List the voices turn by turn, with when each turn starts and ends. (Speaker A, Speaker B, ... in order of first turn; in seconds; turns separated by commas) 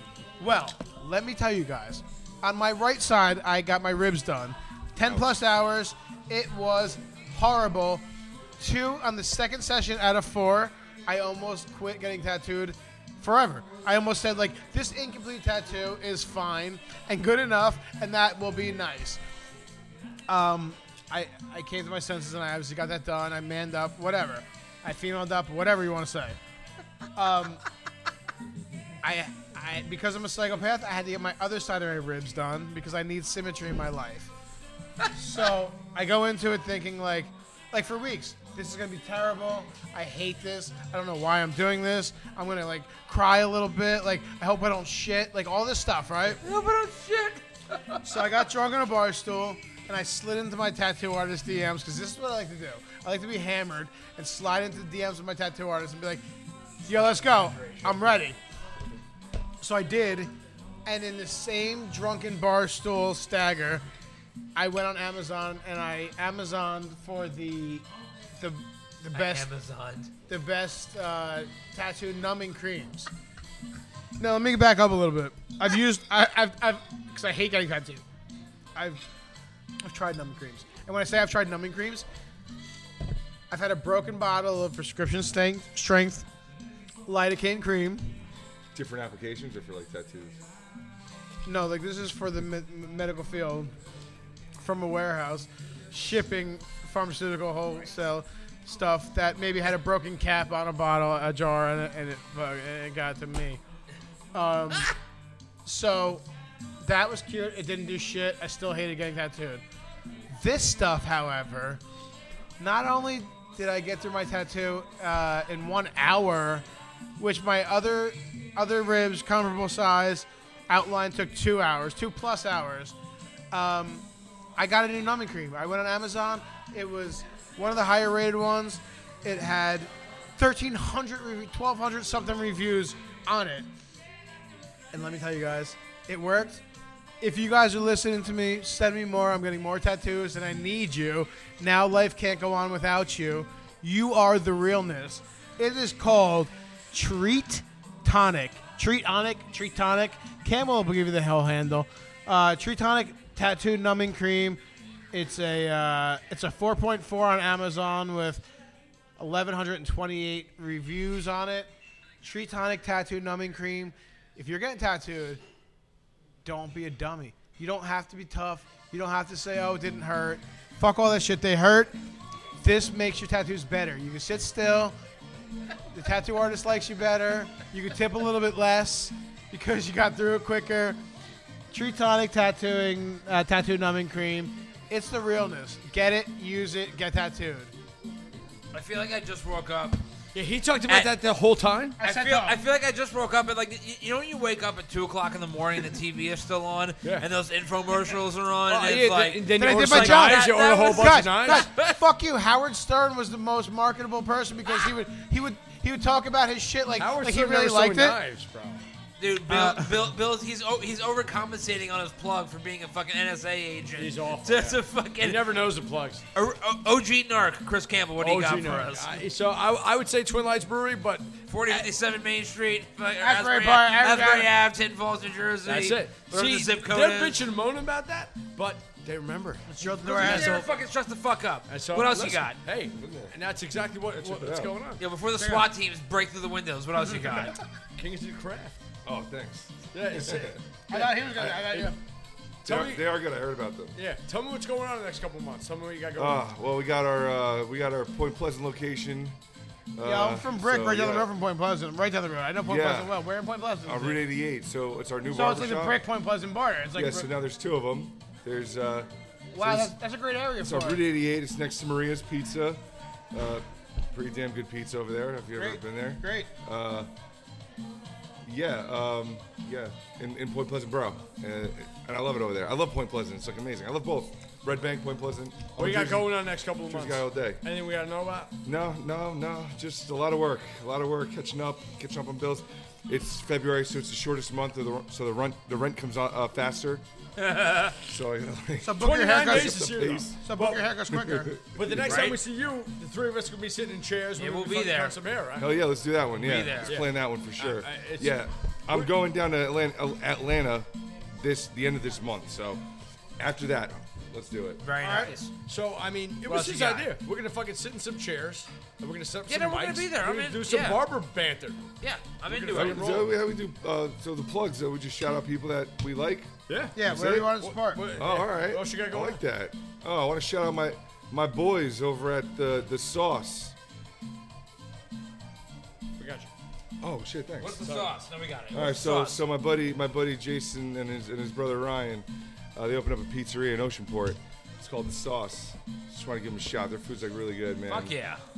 Speaker A: 0.4-8.0, Speaker B: 5.0-5.3, Speaker A: 8.6-19.2, Speaker A: 20.3-26.4, Speaker A: 27.2-27.6, Speaker A: 29.0-34.3, Speaker A: 35.1-46.4, Speaker C: 46.4-48.2, Speaker A: 48.0-56.2, Speaker A: 56.9-58.4, Speaker D: 57.0-58.0, Speaker A: 59.6-60.3, Speaker A: 60.9-63.8, Speaker A: 64.5-69.5, Speaker C: 69.1-70.1, Speaker A: 70.3-73.1, Speaker A: 74.2-78.0, Speaker A: 78.8-79.0, Speaker A: 79.8-82.0, Speaker A: 83.5-86.3, Speaker A: 87.0-88.1, Speaker B: 88.7-90.4, Speaker A: 91.5-93.7, Speaker A: 94.6-103.6, Speaker A: 104.3-105.0, Speaker A: 105.6-106.2, Speaker A: 106.8-109.6, Speaker A: 110.3-111.8, Speaker A: 112.6-116.6, Speaker A: 117.2-123.0, Speaker A: 123.5-124.0, Speaker A: 124.6-133.7, Speaker A: 134.9-136.6, Speaker A: 137.2-154.6, Speaker A: 155.1-158.4, Speaker A: 159.2-161.7, Speaker A: 162.2-165.4, Speaker A: 166.4-171.9, Speaker A: 172.6-174.9, Speaker A: 175.9-181.0, Speaker A: 181.7-187.7, Speaker C: 188.7-190.0, Speaker D: 190.3-192.0, Speaker A: 192.0-192.6, Speaker C: 192.0-202.0, Speaker D: 198.7-201.7, Speaker A: 199.6-208.2, Speaker D: 207.0-208.8, Speaker C: 209.2-215.4, Speaker A: 209.5-210.1, Speaker D: 214.0-216.2, Speaker C: 216.3-219.1, Speaker D: 218.2-221.8, Speaker C: 221.5-227.4, Speaker A: 223.2-224.5, Speaker D: 225.7-230.7, Speaker A: 229.7-230.7, Speaker C: 230.0-232.6, Speaker D: 231.7-235.0, Speaker B: 233.0-233.3, Speaker B: 234.2-234.7, Speaker C: 235.0-237.5, Speaker A: 235.3-235.7, Speaker D: 238.0-238.8, Speaker B: 239.1-241.7, Speaker D: 239.9-241.9, Speaker A: 240.9-242.0, Speaker B: 242.6-244.0, Speaker D: 242.6-243.1, Speaker D: 243.9-246.4, Speaker B: 246.2-249.4, Speaker B: 250.0-251.3, Speaker A: 250.0-254.2, Speaker B: 252.6-253.1, Speaker B: 253.8-256.0, Speaker A: 255.3-257.3, Speaker B: 256.9-259.9, Speaker A: 259.5-261.0, Speaker B: 260.6-262.8, Speaker B: 263.3-267.1, Speaker A: 265.6-266.5, Speaker B: 268.4-276.4, Speaker D: 275.8-278.5, Speaker B: 276.9-277.6, Speaker B: 278.6-287.0, Speaker C: 287.4-288.0, Speaker B: 288.1-290.4, Speaker A: 288.8-291.5, Speaker D: 289.0-290.8, Speaker B: 291.1-292.2, Speaker D: 291.7-295.7, Speaker C: 292.0-292.4, Speaker C: 294.4-295.1, Speaker B: 295.6-302.8, Speaker C: 296.4-297.0, Speaker D: 296.8-298.4, Speaker B: 303.4-304.8, Speaker C: 304.8-305.5, Speaker A: 305.0-305.4, Speaker D: 305.6-311.8, Speaker C: 306.5-307.1, Speaker C: 309.5-311.0, Speaker C: 312.0-313.2, Speaker D: 312.5-313.3, Speaker B: 312.7-317.5, Speaker D: 316.7-317.0, Speaker A: 316.9-318.0, Speaker D: 317.6-319.4, Speaker B: 318.1-323.8, Speaker D: 326.2-326.5, Speaker B: 327.0-327.8, Speaker C: 327.6-329.4, Speaker D: 327.8-328.1, Speaker B: 328.7-338.1, Speaker C: 337.9-338.4